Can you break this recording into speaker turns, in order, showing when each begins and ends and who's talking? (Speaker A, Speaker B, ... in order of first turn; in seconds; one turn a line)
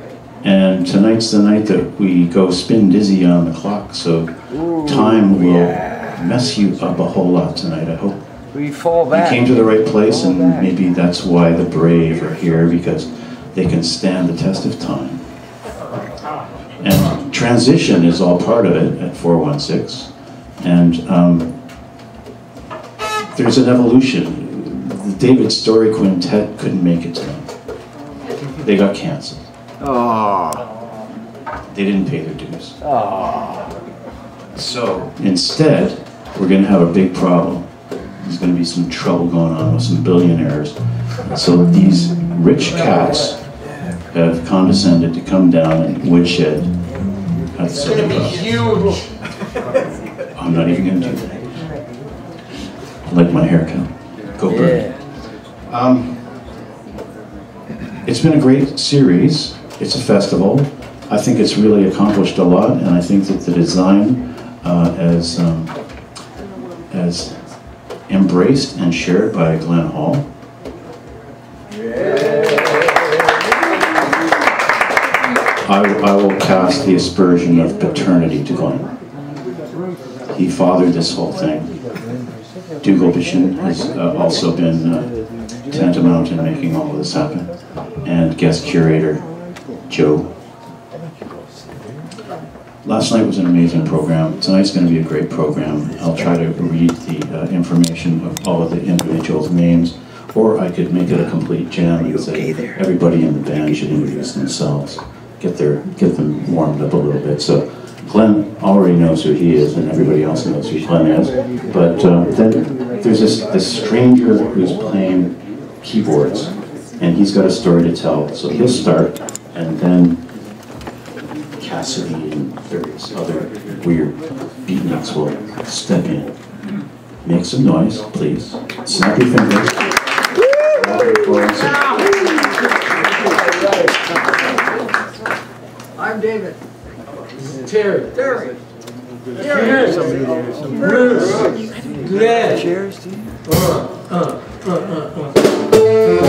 Speaker A: 0.4-8.2
Speaker A: 9.1-15.2
Speaker A: 16.8-21.6
Speaker A: 23.3-27.5
Speaker A: 28.5-29.5
Speaker A: 31.7-32.9
Speaker A: 34.5-43.4
Speaker A: 44.1-46.8
Speaker A: 47.5-48.6
Speaker B: 48.4-49.0
Speaker A: 50.3-51.4
Speaker A: 53.1-55.0
Speaker A: 55.7-56.2
Speaker A: 58.0-65.7
Speaker A: 66.9-67.5
Speaker A: 68.1-70.3
Speaker A: 75.6-78.9
Speaker A: 80.3-81.8
Speaker A: 82.8-89.3
Speaker A: 89.9-90.3
Speaker A: 92.8-120.2
Speaker A: 121.6-126.3
Speaker A: 127.2-129.8
Speaker A: 130.7-132.0
Speaker C: 136.0-136.6
Speaker B: 137.6-138.1
Speaker C: 138.1-138.6
Speaker C: 139.4-140.2
Speaker B: 139.4-142.8
Speaker B: 143.5-145.3